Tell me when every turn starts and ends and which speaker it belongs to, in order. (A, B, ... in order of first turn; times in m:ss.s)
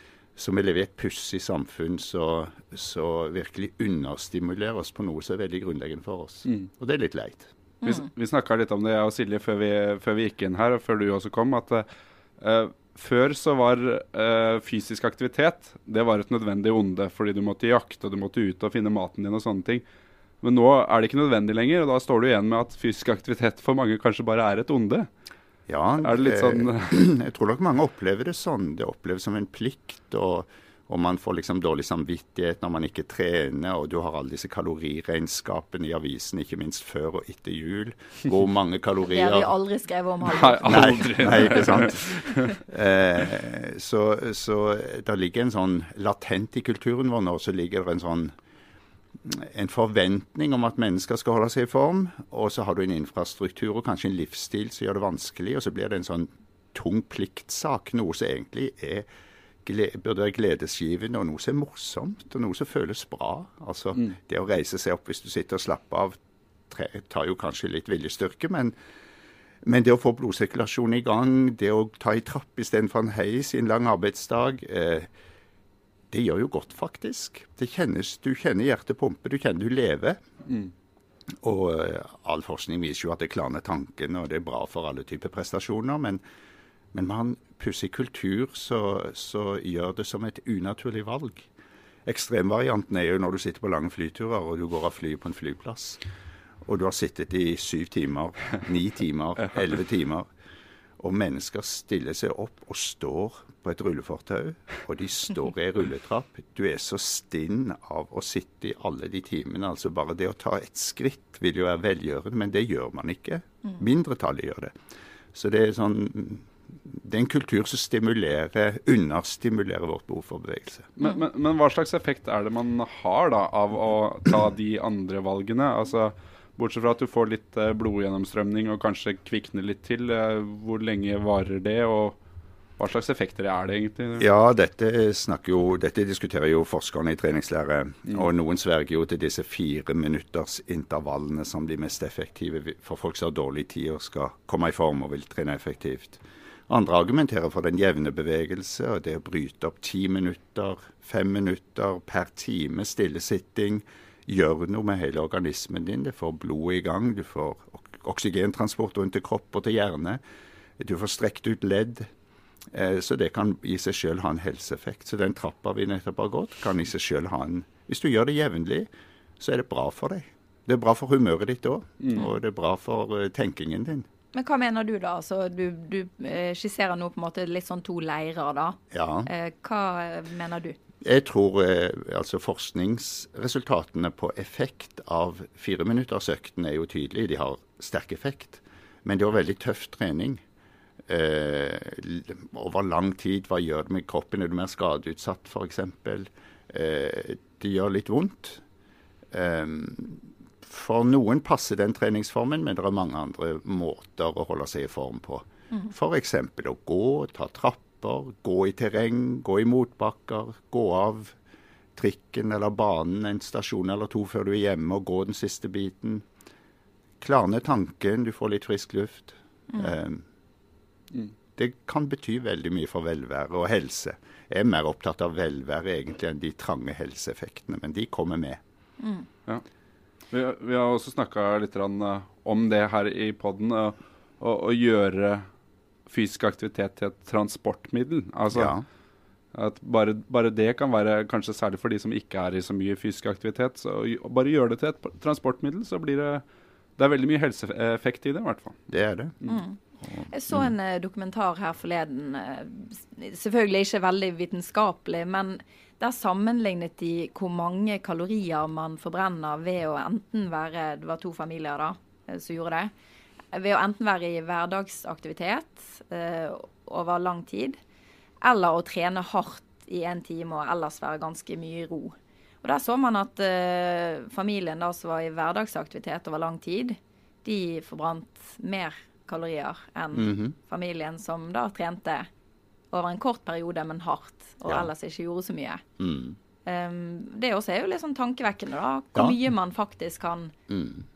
0:00.4-0:07.5 A
0:07.8-0:11.8 B
0:12.4-0:19.8 B
0:20.4-0:25.1 B
0:25.7-0:39.5 A
0:26.0-0:26.9 B
0:39.0-0:41.9 C
0:40.2-0:42.6 B
0:40.6-0:48.3 A
0:49.2-0:59.1 A
0:59.6-1:06.2 A
1:06.7-1:08.7 A
1:09.6-1:15.1 A
1:16.1-1:20.2 A
1:20.5-1:20.7 B
1:21.4-1:26.2 A
1:26.9-1:31.5 A
1:32.0-1:36.0 A
1:36.6-1:40.3 A
1:41.0-1:54.7 A
1:55.3-2:00.9 A
2:01.0-2:12.2 B
2:12.8-2:14.2 B
2:14.2-2:40.2 A
2:40.8-2:42.1 A
2:42.7-2:48.9 A
2:49.4-2:54.1 A
2:52.0-2:52.2 B
2:54.3-3:00.8 C
2:58.9-2:59.3 A
3:01.0-3:10.4 A
3:11.1-3:18.6 A
3:19.3-3:31.4 A
3:32.0-3:36.2 A
3:37.2-3:40.2 A
3:41.6-3:48.6 A
3:49.0-3:49.3 C
3:50.3-3:55.4 B
3:56.1-3:58.7 B
3:58.5-3:58.8 A
3:59.5-4:06.4 B
4:07.0-4:08.8 B
4:08.9-4:09.4 A
4:09.4-4:09.8 C
4:10.0-4:10.7 A
4:10.3-4:22.9 C
4:23.5-4:27.8 C
4:28.4-4:42.3 C
4:40.1-4:40.5 A
4:42.9-4:45.8 C
4:46.0-4:46.4 A
4:46.6-4:50.5 C
4:50.7-4:51.0 A